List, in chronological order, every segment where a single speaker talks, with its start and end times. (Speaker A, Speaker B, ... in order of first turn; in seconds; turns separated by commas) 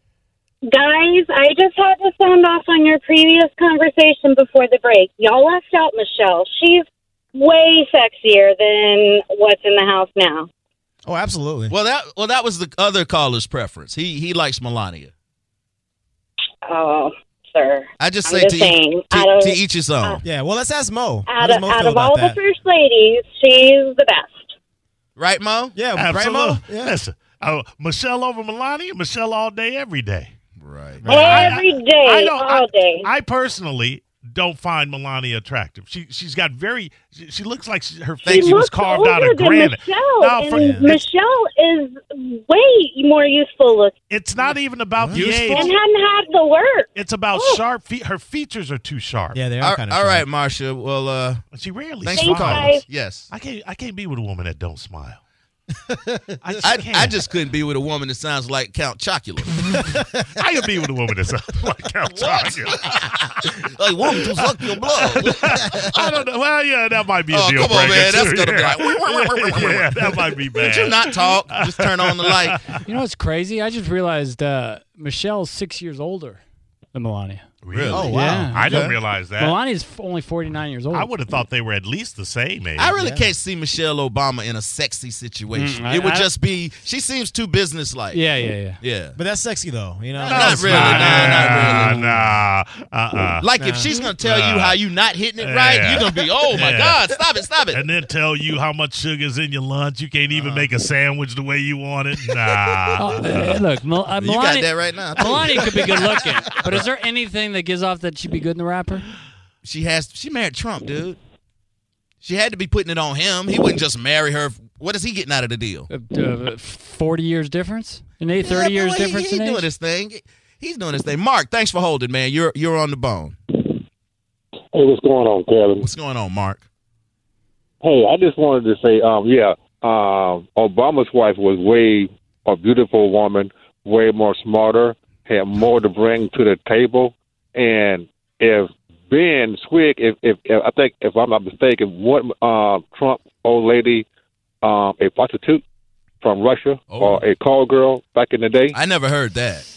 Speaker A: 0.7-10.5, Speaker B: 11.0-11.7, Speaker C: 11.7-15.1, Speaker A: 16.6-20.2, Speaker C: 18.0-20.2, Speaker B: 20.2-22.4, Speaker A: 21.3-24.5, Speaker C: 25.1-25.8, Speaker B: 25.7-27.0, Speaker D: 25.9-30.3, Speaker C: 30.6-31.6, Speaker B: 31.0-31.4, Speaker A: 31.1-33.1, Speaker D: 31.1-41.0, Speaker C: 38.2-38.6, Speaker A: 38.3-43.9, Speaker B: 40.5-40.9, Speaker D: 44.1-45.8, Speaker C: 45.0-45.4, Speaker B: 45.2-45.5, Speaker A: 45.5-47.6, Speaker D: 46.9-49.4, Speaker B: 49.3-50.2, Speaker C: 49.6-51.4, Speaker D: 51.5-52.8, Speaker C: 52.0-53.3, Speaker A: 52.1-52.8, Speaker D: 53.3-55.2, Speaker B: 55.9-56.6, Speaker D: 56.4-57.2, Speaker C: 56.6-59.5, Speaker D: 59.5-59.8, Speaker D: 60.3-63.6, Speaker C: 62.1-66.2, Speaker D: 64.3-72.8, Speaker C: 67.3-72.6, Speaker E: 72.8-76.4, Speaker E: 76.9-77.5, Speaker D: 77.6-79.5, Speaker C: 77.7-79.0, Speaker B: 77.9-78.9, Speaker E: 78.1-78.7, Speaker E: 79.3-81.1, Speaker D: 80.9-82.9, Speaker C: 82.8-88.2, Speaker B: 82.9-83.3, Speaker E: 85.5-86.3, Speaker E: 88.1-88.8, Speaker C: 88.8-89.2, Speaker B: 89.2-92.2, Speaker C: 90.2-92.0, Speaker D: 90.2-93.5, Speaker C: 93.4-97.8, Speaker B: 93.5-94.0, Speaker D: 94.2-94.8, Speaker D: 95.4-97.0, Speaker D: 97.7-103.5, Speaker C: 100.3-100.7, Speaker E: 103.0-109.0, Speaker C: 104.2-106.8, Speaker C: 109.6-111.2, Speaker C: 112.2-115.9, Speaker E: 115.9-119.7, Speaker C: 118.4-123.4, Speaker F: 124.7-125.9, Speaker C: 125.8-126.6, Speaker F: 127.8-144.1, Speaker F: 144.6-145.6, Speaker F: 146.2-148.8, Speaker C: 146.9-147.2, Speaker C: 148.7-149.6